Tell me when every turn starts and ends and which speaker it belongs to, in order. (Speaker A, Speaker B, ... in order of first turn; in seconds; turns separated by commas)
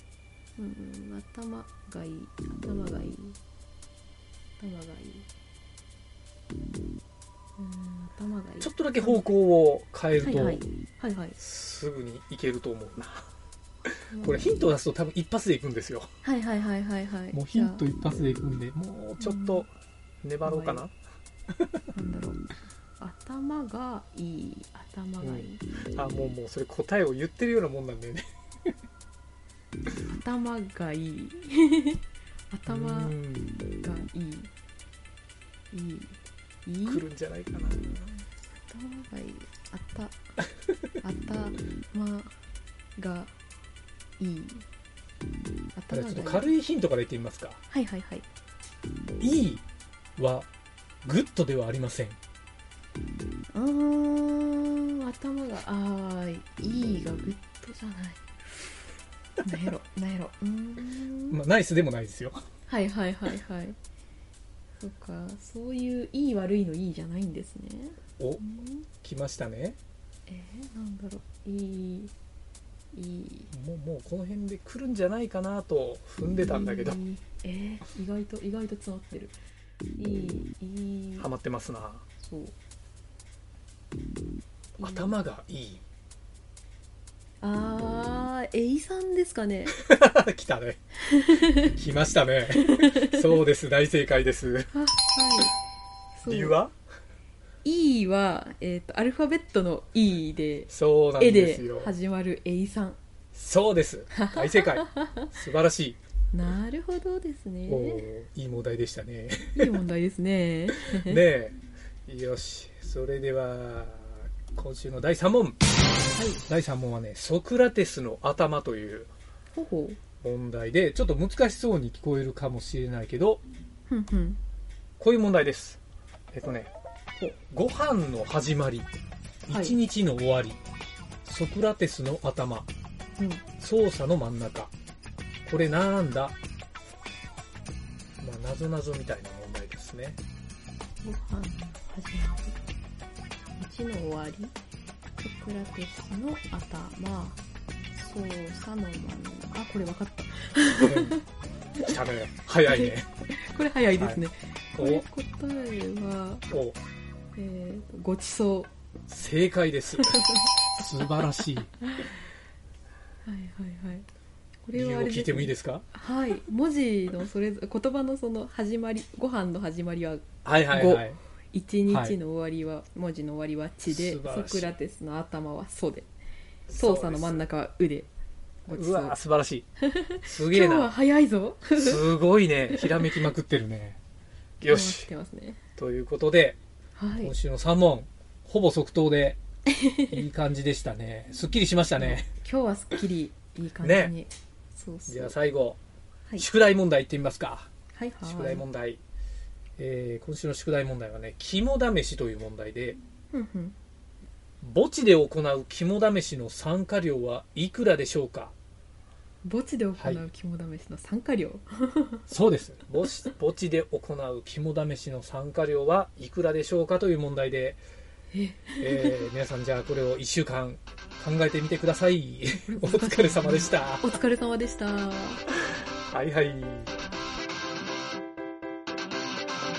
Speaker A: 0.6-3.4, Speaker A: 4.6-5.3, Speaker A: 7.6-9.2, Speaker B: 8.6-10.6, Speaker A: 10.2-11.4, Speaker B: 11.4-13.3, Speaker A: 14.1-14.6, Speaker B: 14.2-16.1, Speaker A: 16.2-17.8, Speaker B: 17.3-19.7, Speaker A: 19.2-19.6, Speaker B: 20.2-20.9, Speaker A: 20.4-20.8, Speaker A: 21.9-22.5, Speaker A: 23.0-25.6, Speaker B: 25.2-28.2, Speaker A: 30.0-33.1, Speaker B: 32.6-33.6, Speaker A: 33.7-34.5, Speaker A: 35.7-37.0, Speaker B: 36.8-38.0, Speaker A: 38.7-40.2, Speaker A: 41.0-42.4, Speaker A: 43.0-43.3, Speaker A: 44.2-44.6, Speaker A: 45.7-46.5, Speaker B: 45.9-47.6, Speaker A: 47.7-48.2, Speaker B: 49.2-49.6, Speaker B: 50.2-50.5, Speaker B: 51.0-52.2, Speaker A: 53.5-58.2, Speaker A: 59.4-61.4, Speaker B: 61.3-62.4, Speaker A: 62.7-63.8, Speaker A: 64.8-68.8, Speaker B: 68.2-68.5, Speaker B: 69.0-69.8, Speaker A: 70.3-72.1, Speaker A: 72.9-73.5, Speaker B: 73.5-77.0, Speaker A: 76.4-79.4, Speaker A: 80.0-81.3, Speaker B: 81.2-82.0, Speaker A: 82.2-82.5, Speaker B: 84.8-85.8, Speaker A: 84.8-85.1, Speaker A: 87.4-89.8, Speaker B: 89.7-90.8, Speaker A: 91.1-91.6, Speaker B: 91.4-94.7, Speaker A: 92.6-93.2, Speaker A: 94.7-95.5, Speaker A: 96.2-96.6, Speaker B: 96.2-96.7, Speaker A: 97.6-103.0, Speaker B: 100.7-101.9, Speaker B: 103.3-106.0, Speaker A: 104.1-105.2, Speaker A: 106.3-108.0, Speaker B: 107.7-109.8, Speaker A: 109.5-111.2, Speaker B: 110.9-115.6, Speaker B: 116.4-119.1, Speaker A: 119.5-120.0, Speaker B: 120.2-123.4, Speaker A: 123.9-124.4, Speaker B: 125.0-125.8, Speaker B: 126.3-126.7, Speaker B: 127.3-128.9, Speaker B: 129.5-130.6, Speaker A: 129.5-129.8, Speaker B: 131.2-132.7, Speaker A: 133.2-133.4, Speaker B: 133.6-134.7, Speaker B: 135.4-136.3, Speaker B: 138.2-140.2, Speaker A: 141.0-142.6, Speaker A: 143.6-144.6, Speaker A: 145.2-151.2, Speaker B: 150.8-151.2, Speaker B: 151.8-153.1, Speaker A: 152.7-156.4, Speaker B: 154.0-154.2, Speaker B: 154.7-155.0, Speaker B: 156.5-156.8, Speaker A: 157.3-158.7, Speaker B: 159.1-161.8, Speaker A: 163.2-164.1, Speaker A: 164.6-176.1, Speaker B: 164.7-165.9, Speaker B: 170.4-171.2, Speaker B: 171.9-172.2, Speaker B: 173.8-174.7, Speaker B: 176.7-177.5, Speaker A: 176.8-178.1, Speaker A: 178.6-179.2, Speaker B: 178.7-179.7, Speaker A: 179.8-182.0, Speaker B: 180.2-180.9, Speaker B: 181.8-184.0, Speaker A: 182.7-183.2, Speaker B: 184.6-185.1, Speaker A: 184.6-185.6, Speaker B: 185.8-186.6, Speaker A: 187.0-187.3, Speaker B: 187.2-189.4, Speaker A: 189.8-190.1, Speaker B: 190.1-192.3, Speaker A: 192.0-195.3, Speaker B: 193.8-194.1, Speaker B: 195.1-195.8, Speaker B: 196.4-197.7, Speaker A: 197.9-198.6, Speaker B: 198.2-199.0, Speaker B: 199.8-203.0, Speaker A: 203.3-203.7, Speaker B: 204.6-208.5, Speaker A: 209.4-212.2, Speaker B: 210.0-210.2, Speaker B: 212.3-217.8, Speaker A: 218.3-219.3, Speaker B: 218.8-224.0, Speaker A: 222.7-225.4, Speaker B: 226.1-226.9